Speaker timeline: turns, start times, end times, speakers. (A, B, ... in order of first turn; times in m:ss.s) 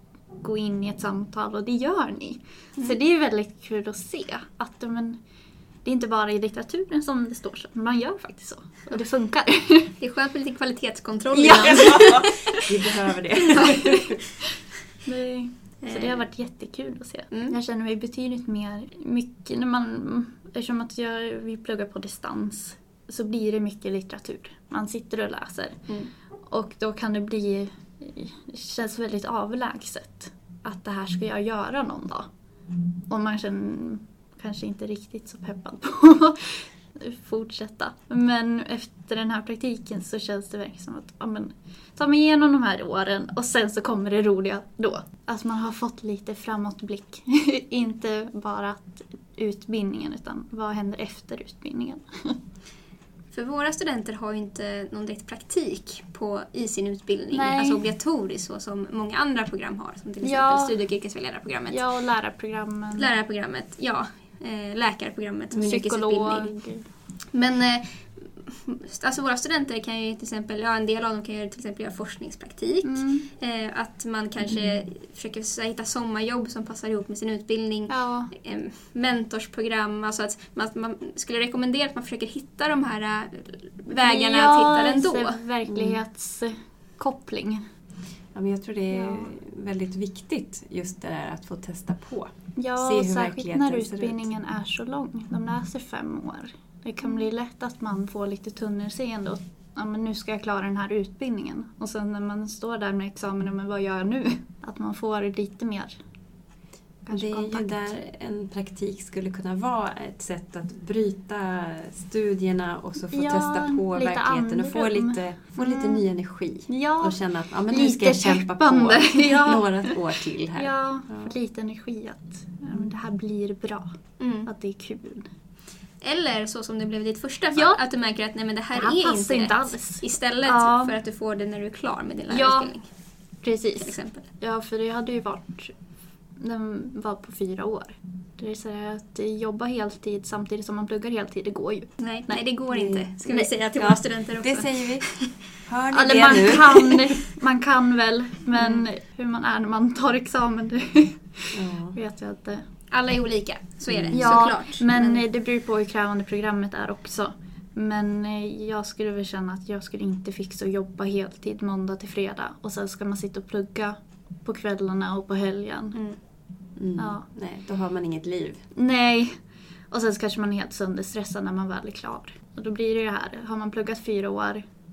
0:00.4-0:05.2 A
0:05.8-0:09.9 A
0:10.0-0:12.6 B
0:11.4-0:14.2 C
0:11.4-0:12.6 A
0:15.0-0:25.8 A
0:15.8-0:16.2 B
0:26.5-0:32.3 A
0:33.1-0:52.4 A
0:53.3-1:01.9 B
0:57.3-0:57.8 A
1:00.2-1:00.8 A
1:01.7-1:03.1 A
1:02.9-1:06.5 B
1:05.5-1:06.8 A
1:07.3-1:25.4 B
1:12.8-1:13.3 A
1:17.9-1:18.3 A
1:23.9-1:27.6 A
1:25.6-1:26.0 C
1:28.3-1:34.3 C
1:28.9-1:29.3 A
1:32.6-1:46.0 A
1:47.0-1:47.9 A
1:47.1-2:01.3 C
1:53.1-1:56.0 A
1:56.7-1:59.9 A
2:00.5-2:03.9 A
2:04.2-2:04.5 B
2:04.4-2:05.3 A
2:06.0-2:12.9 B
2:07.5-2:07.8 A
2:08.7-2:10.9 A
2:12.3-2:12.7 A
2:13.4-2:15.8 A
2:13.8-2:14.3 B
2:16.4-2:22.4 A
2:22.0-2:25.3 B
2:22.7-2:27.0 C
2:23.2-2:23.5 A
2:25.9-2:32.6 A
2:31.5-2:32.0 C
2:32.9-2:35.2 B
2:33.9-2:34.5 C
2:34.1-2:46.0 A
2:46.8-2:48.6 C
2:47.0-2:47.3 A
2:48.7-2:54.6 A